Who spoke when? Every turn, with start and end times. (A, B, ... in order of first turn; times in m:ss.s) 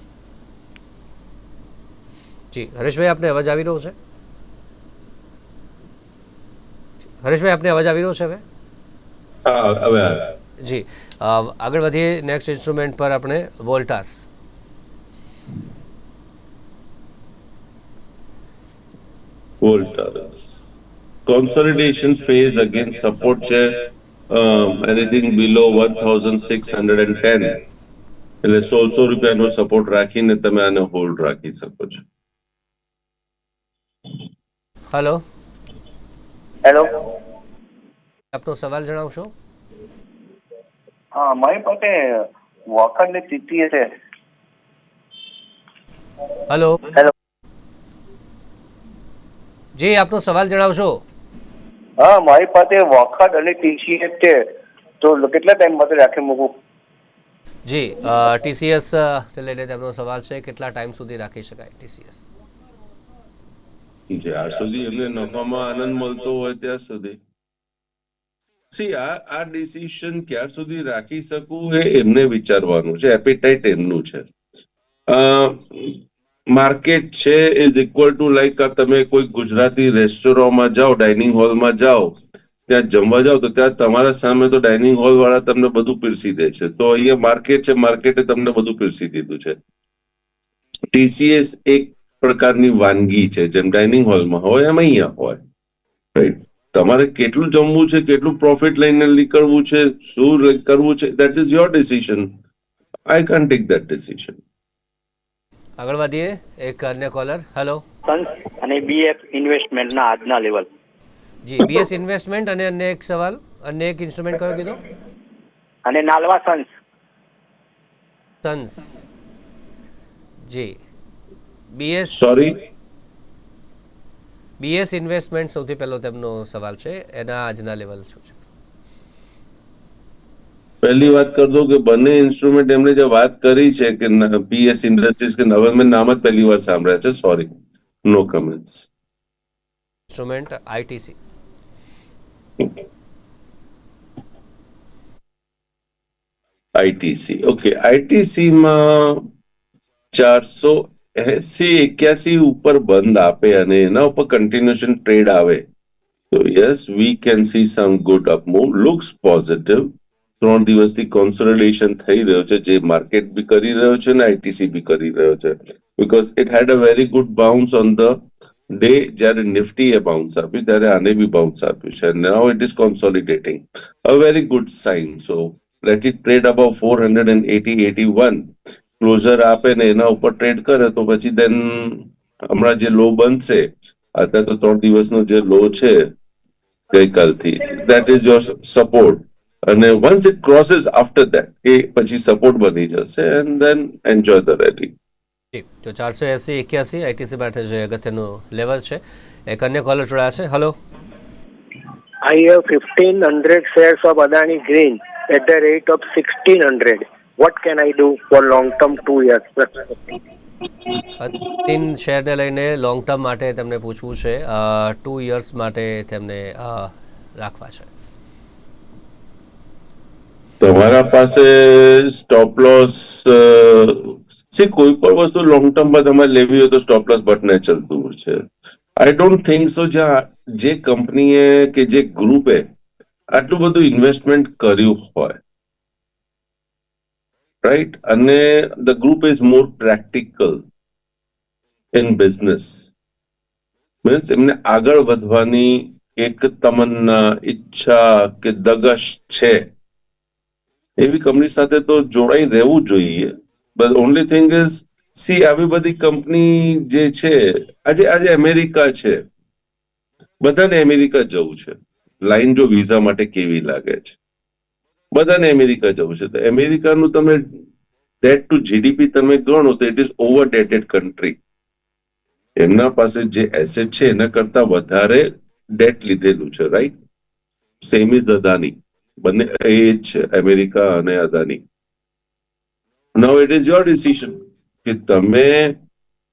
0:02.5-0:03.9 A
0:07.2-0:08.4 A
0:09.4-0:10.3 B
0:10.6-0:14.2 A
0:19.6-0:20.6 B
0:21.2-0:27.6 B
0:28.4-0:32.0 B
0:34.9-0:35.2 A
0:36.6-0:37.0 C
0:38.3-0:39.3 A
0:41.1-0:43.9 C
0:46.5-0:46.8 A
0:49.8-0:51.0 A
0:52.0-0:54.5 C
0:55.0-0:56.6 C
0:57.7-1:02.3 A
1:04.1-1:07.2 B
1:08.7-1:14.2 B
1:15.1-1:29.6 B
1:30.9-1:35.4 B
1:36.1-1:42.3 B
1:43.1-1:44.4 B
1:45.8-1:47.8 A
1:48.1-1:50.7 D
1:51.4-1:54.8 A
1:55.8-1:56.7 D
1:58.4-1:59.0 A
2:00.5-2:00.8 A
2:01.7-2:02.2 A
2:02.1-2:02.6 B
2:04.6-2:08.4 A
2:10.8-2:17.5 B
2:18.0-2:18.9 B
2:20.1-2:21.2 A
2:26.7-2:29.3 B
2:30.1-2:35.6 B
2:36.3-3:06.1 B
3:06.9-3:14.9 B
3:15.5-3:20.7 A
3:22.2-3:30.1 E
3:31.2-3:37.9 A
3:40.6-3:48.4 B
3:49.0-3:52.7 B
3:53.3-3:55.4 B
3:57.6-4:00.6 B
4:01.9-4:02.9 B
4:04.0-4:09.7 B
4:11.0-4:19.2 B
4:20.4-4:24.2 B
4:25.1-4:27.5 B
4:28.2-4:31.4 B
4:32.6-4:36.9 B
4:37.8-4:41.6 B
4:43.2-4:45.8 B